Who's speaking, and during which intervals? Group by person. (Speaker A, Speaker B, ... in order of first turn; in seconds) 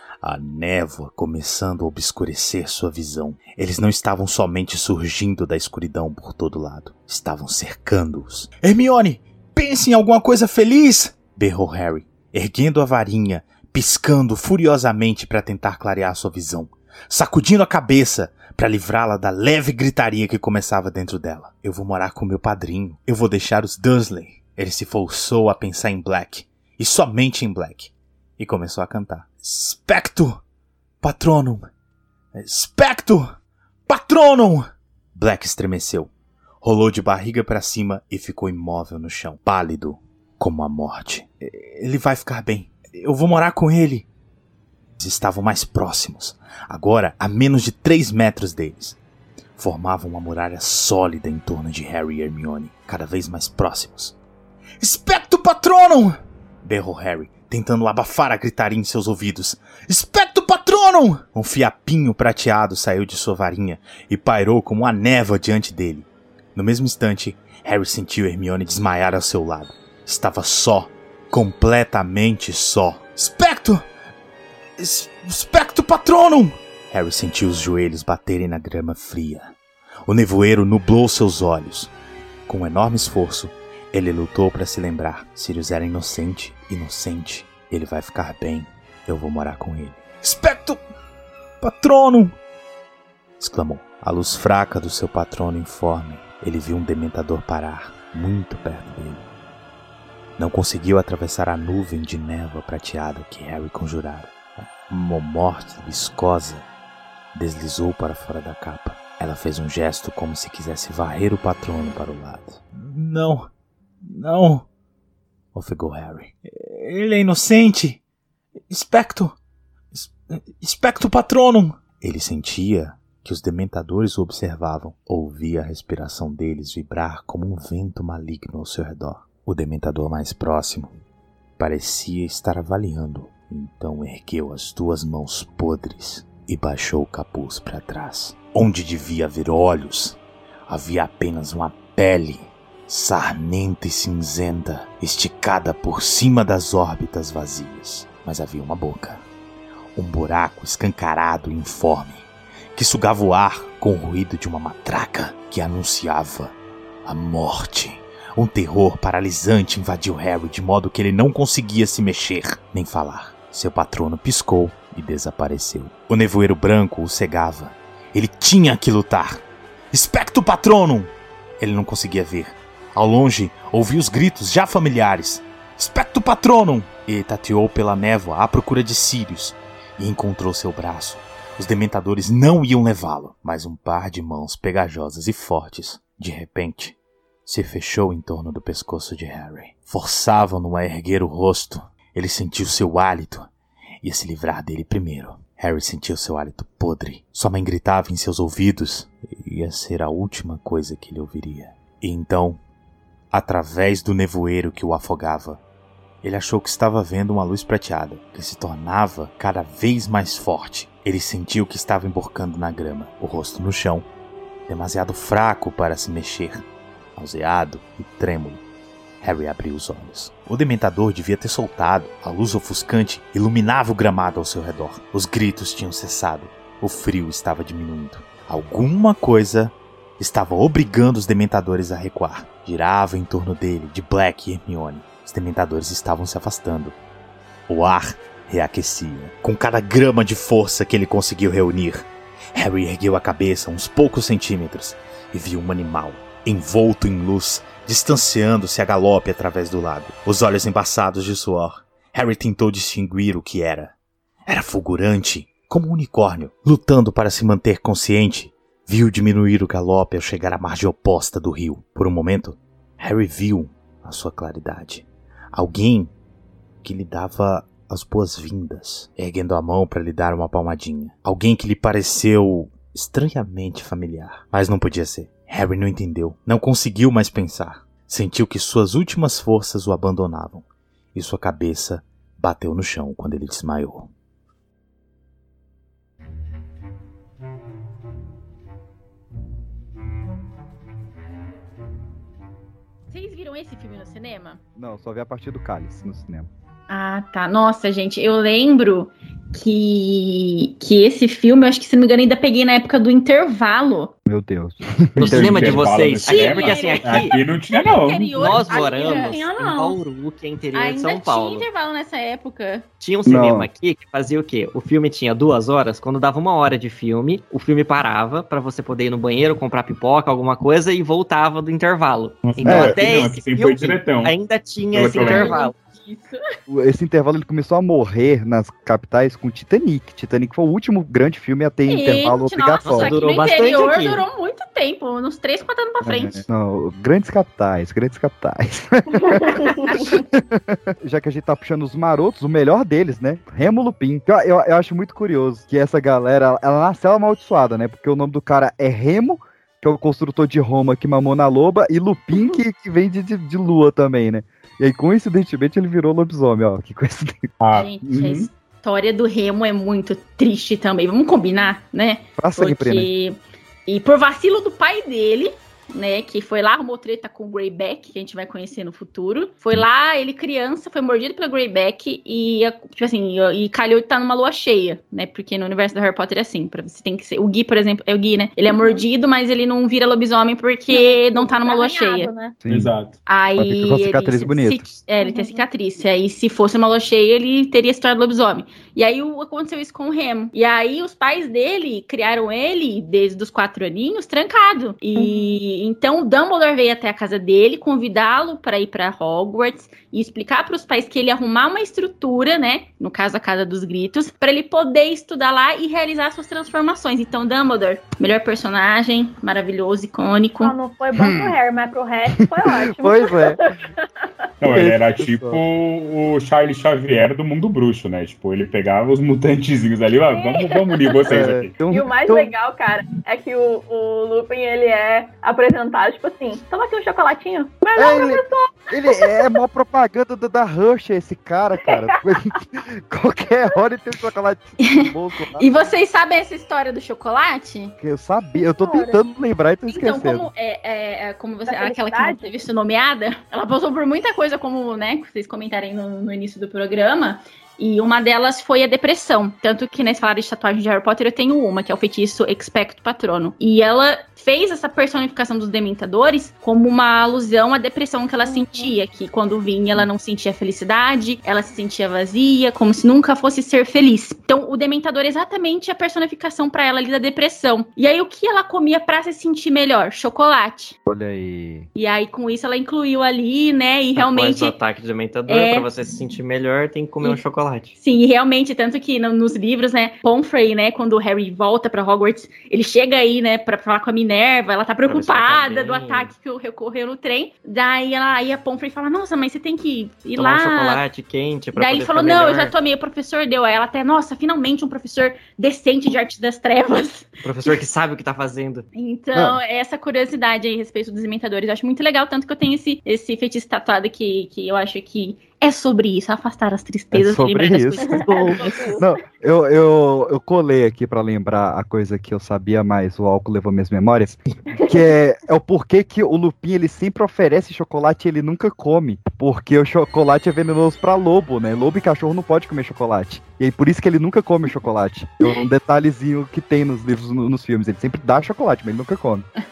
Speaker A: 0.2-30.4, 31.0-31.7, 32.3-33.4, 33.9-36.1, 36.6-44.0, 45.0-49.0, 49.6-54.1, 54.8-73.9, 74.8-79.5, 80.1-81.9, 82.5-90.8, 91.6-92.3, 93.4-99.2, 100.4-106.6, 107.3-113.5, 114.0-114.7, 115.5-118.0, 118.7-119.3, 119.9-131.0, 131.6-149.2, 149.9-156.5, 157.1-193.5, 194.0-202.6, 203.3-205.6, 206.2-214.1, 214.7-216.6, 217.2-218.6, 219.2-236.9, 237.7-253.9, 254.5-266.1, 266.8-284.1
Speaker B: 293.1-294.6, 296.9-304.1, 306.3-309.4, 310.7-312.9, 325.0-326.4, 331.9-336.4, 357.7-382.3, 383.2-410.7, 435.6-437.9, 439.9-470.9, 471.9-474.7, 475.5-475.9, 478.0-491.0, 491.8-497.3, 498.9-508.8
Speaker C: 294.7-296.5, 304.2-305.9, 313.2-313.7, 322.6-323.0, 326.7-333.2, 336.0-339.6, 340.3-357.5, 358.0-358.4, 362.4-363.1, 382.6-382.9, 383.6-384.8, 411.1-411.6, 412.6-413.6, 414.7-415.6, 421.3-422.5, 428.0-435.7, 438.0-440.5, 471.1-471.9, 507.1-529.5
Speaker D: 305.2-308.6, 322.4-324.3, 324.9-325.5, 357.6-357.9, 382.7-383.1, 414.6-421.7
Speaker E: 305.2-307.3, 308.3-311.6, 313.0-325.7, 332.8-334.2, 474.2-477.9, 485.1-486.3, 490.4-492.7, 497.4-498.9
Speaker F: 308.7-309.9, 339.2-340.2, 378.7-379.0, 380.9-382.6, 385.2-385.6, 395.1-395.5, 410.6-413.9, 420.3-421.3, 421.9-429.5, 431.8-432.2, 438.6-439.2, 441.7-442.4, 458.4-458.9, 508.0-509.1, 514.7-515.1